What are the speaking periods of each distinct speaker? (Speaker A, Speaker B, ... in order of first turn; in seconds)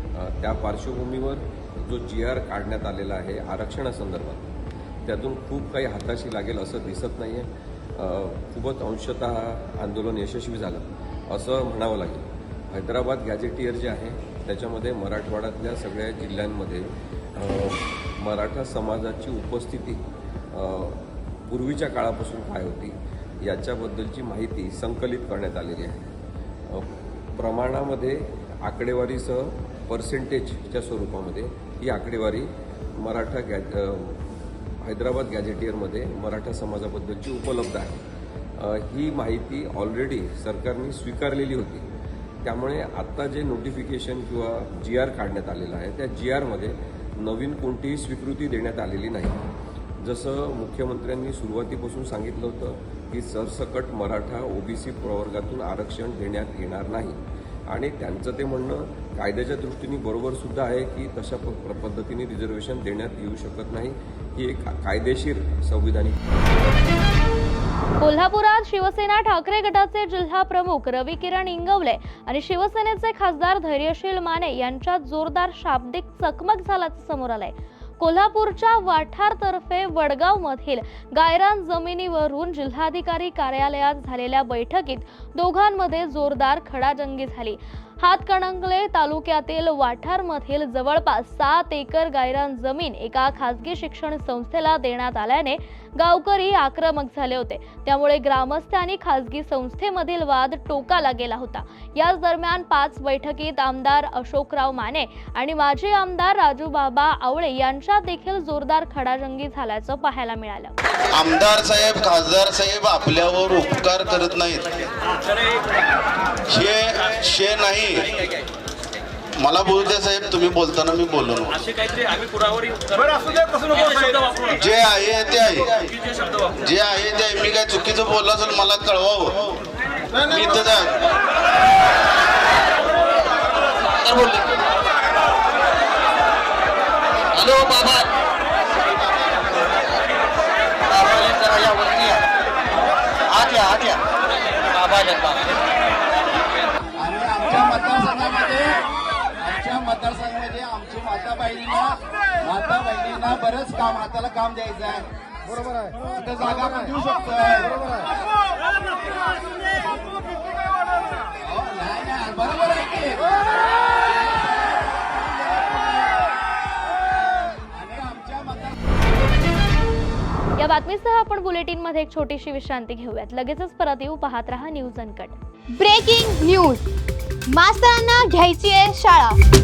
Speaker A: 0.2-4.5, 5.1-20.0, 20.5-26.0, 27.4-34.2, 34.8-38.0, 38.6-41.9, 42.4-49.4, 50.0-57.2, 57.7-66.2
Speaker B: 68.0-110.7, 170.6-175.3
Speaker C: 111.1-114.7, 116.5-118.1, 119.4-121.6, 124.6-125.9, 126.6-129.6, 130.2-131.0
Speaker D: 137.4-137.9, 141.0-142.1, 143.4-143.9, 144.8-145.3
Speaker E: 147.0-148.9, 149.4-155.1, 156.1-158.1, 161.4-163.4, 164.1-165.0, 167.7-168.8
Speaker F: 175.7-176.8, 177.5-179.4